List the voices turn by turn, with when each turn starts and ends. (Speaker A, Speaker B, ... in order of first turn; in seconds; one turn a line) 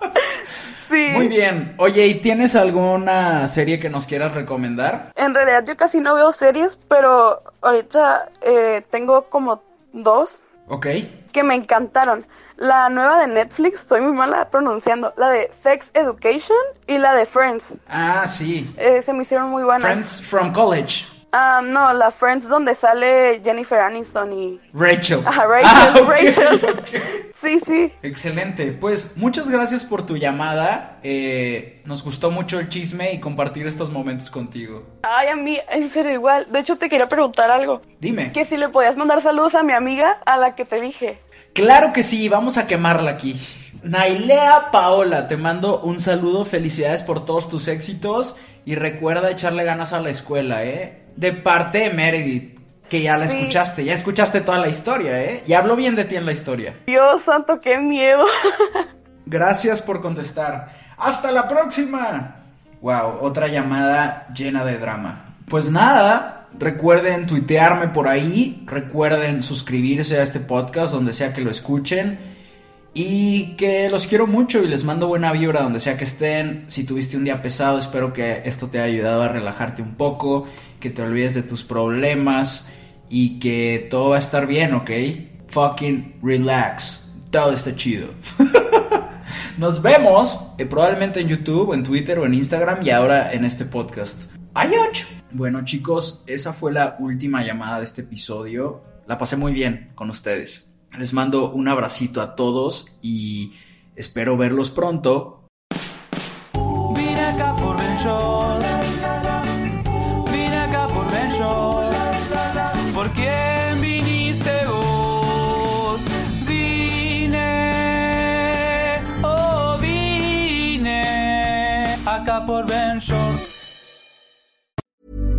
Speaker A: 0.8-1.3
Speaker B: 1.1-5.1
Speaker A: 5.2-10.4
Speaker B: 10.7-11.1
Speaker A: 11.3-17.8
Speaker B: 17.9-18.8
Speaker A: 18.8-20.1
Speaker B: 19.8-21.1
Speaker A: 21.3-24.6
Speaker B: 24.7-27.2
Speaker A: 25.2-27.9
Speaker B: 28.0-34.9
Speaker A: 35.0-41.2
Speaker B: 38.0-38.4
Speaker B: 41.5-56.8
Speaker A: 53.1-53.6
Speaker A: 56.9-58.9
Speaker B: 59.3-72.3
Speaker B: 72.9-89.0
Speaker B: 89.6-105.5
Speaker C: 106.9-123.5